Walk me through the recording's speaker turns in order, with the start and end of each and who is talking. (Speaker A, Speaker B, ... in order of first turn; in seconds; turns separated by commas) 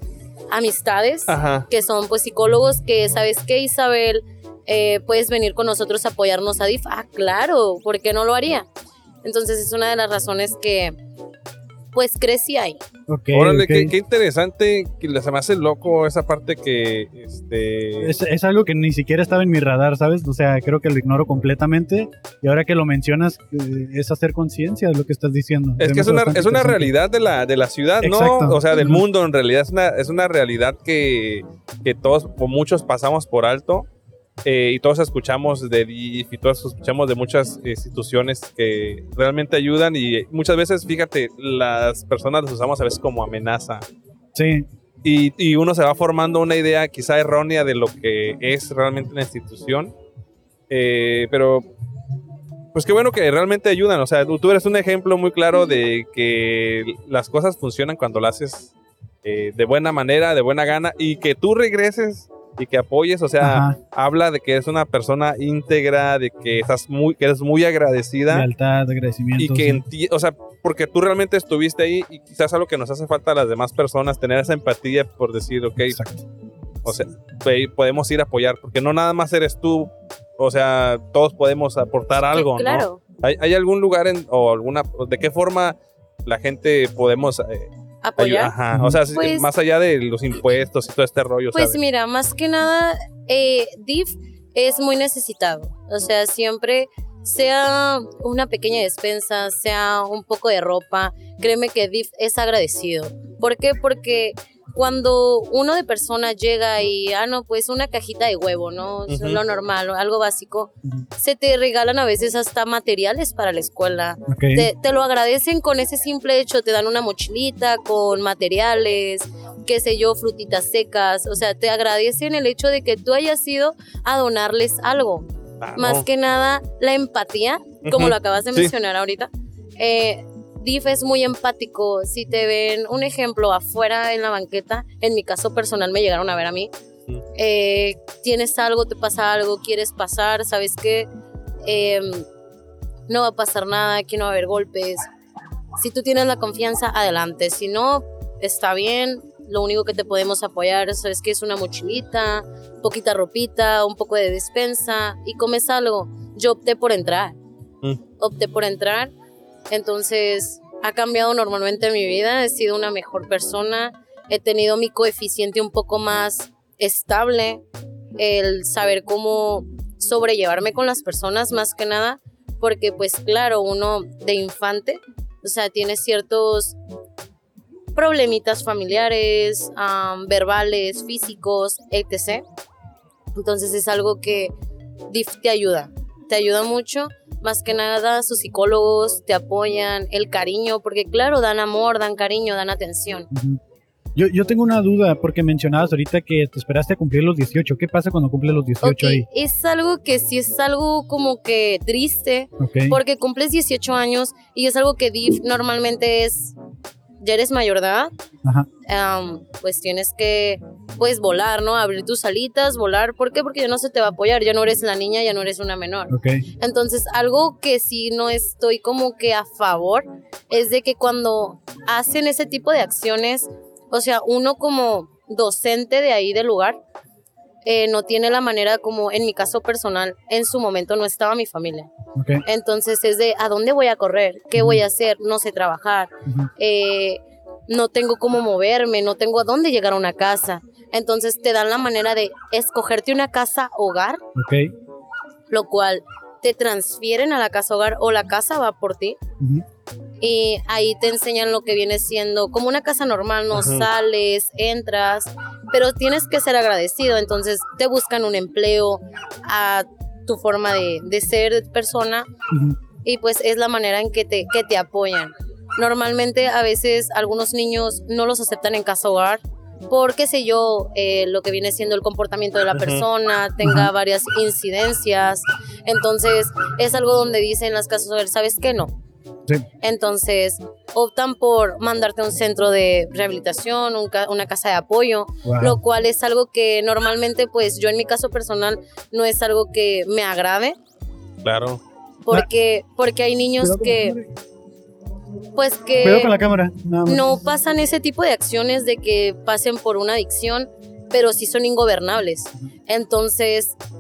Speaker A: 0.5-8.7, Speaker B: 1.3-1.7, Speaker A: 9.2-10.9, Speaker A: 11.9-12.8, Speaker C: 13.1-13.9, Speaker B: 13.3-18.1, Speaker C: 18.0-26.9, Speaker B: 25.8-33.9, Speaker C: 28.0-29.0, Speaker B: 34.4-43.9, Speaker C: 44.4-44.7, Speaker B: 45.0-49.9, Speaker B: 50.7-51.6, Speaker B: 52.7-58.7, Speaker B: 59.2-68.5, Speaker C: 63.4-63.8, Speaker C: 68.3-69.8, Speaker B: 69.4-76.0, Speaker C: 75.9-76.2, Speaker B: 76.8-91.8, Speaker A: 82.2-83.0, Speaker A: 88.0-88.5, Speaker C: 88.7-89.0, Speaker A: 89.0-89.5, Speaker A: 91.5-136.7, Speaker B: 109.1-109.4, Speaker C: 114.3-114.7, Speaker B: 125.6-126.1, Speaker B: 127.8-128.7, Speaker A: 137.3-141.1, Speaker A: 141.6-142.3, Speaker A: 143.1-145.1, Speaker A: 145.8-157.4, Speaker A: 158.2-159.1, Speaker A: 159.7-167.6, Speaker A: 168.2-176.8, Speaker A: 177.9-182.4, Speaker A: 183.3-184.5, Speaker A: 185.1-193.3, Speaker C: 193.3-193.6, Speaker C: 194.2-199.3, Speaker A: 198.8-206.6, Speaker C: 202.6-203.0, Speaker A: 207.2-208.1, Speaker A: 208.9-226.8, Speaker C: 216.1-216.4, Speaker A: 227.7-231.9, Speaker C: 232.2-232.4, Speaker A: 232.4-244.2, Speaker C: 234.6-234.8, Speaker C: 244.4-244.7, Speaker A: 245.5-249.2, Speaker C: 249.4-249.7, Speaker A: 250.2-262.3, Speaker B: 253.6-253.9, Speaker C: 262.5-262.8, Speaker A: 263.0-278.9, Speaker B: 272.7-273.0, Speaker C: 273.6-273.9, Speaker A: 279.8-290.8, Speaker C: 285.4-285.8, Speaker B: 291.4-291.8, Speaker A: 292.2-294.2, Speaker C: 293.6-294.3, Speaker A: 295.6-296.4, Speaker C: 296.0-297.4, Speaker A: 297.1-303.8